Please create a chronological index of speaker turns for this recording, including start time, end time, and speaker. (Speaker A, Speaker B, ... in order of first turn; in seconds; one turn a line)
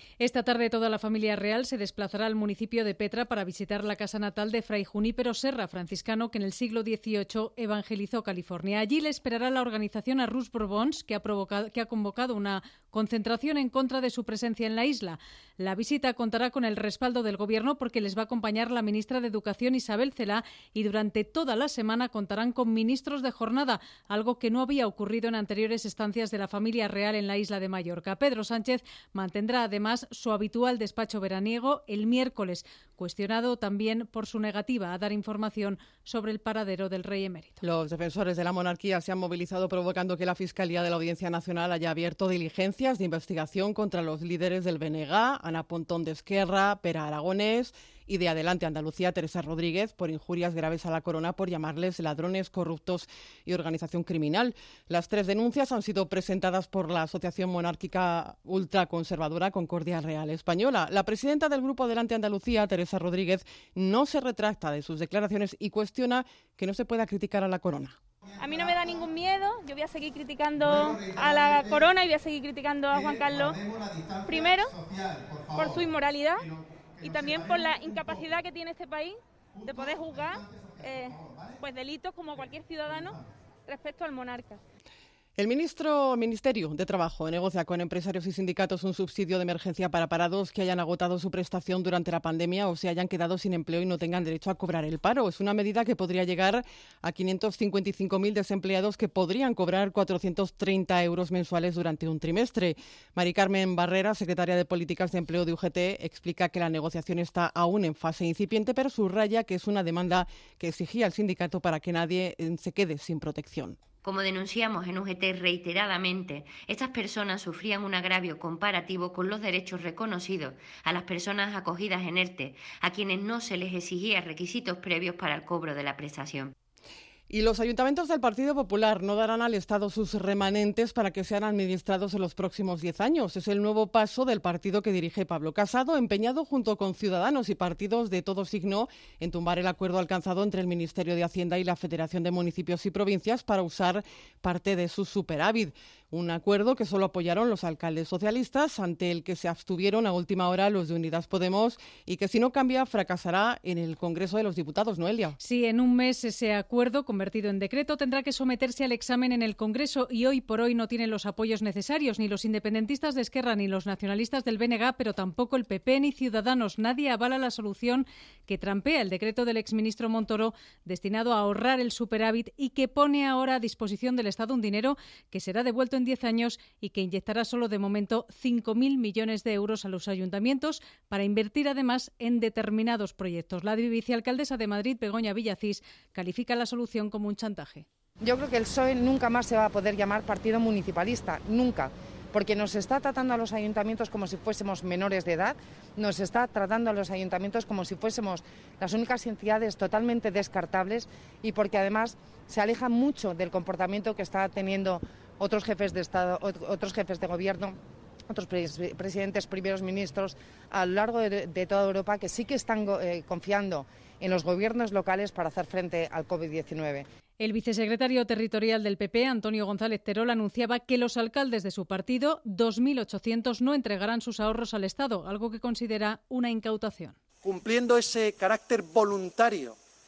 Speaker A: 0.2-37.6
Speaker B: 37.6-68.0
Speaker C: 68.4-73.6
Speaker C: 74.3-74.8
Speaker C: 75.5-76.5
Speaker C: 77.0-84.6
Speaker B: 85.4-113.8
Speaker D: 114.0-126.5
Speaker B: 127.3-155.4
Speaker A: 155.4-187.9
Speaker E: 188.2-207.8
Speaker E: 208.3-217.1
Speaker A: 217.4-227.2
Speaker F: 227.4-229.8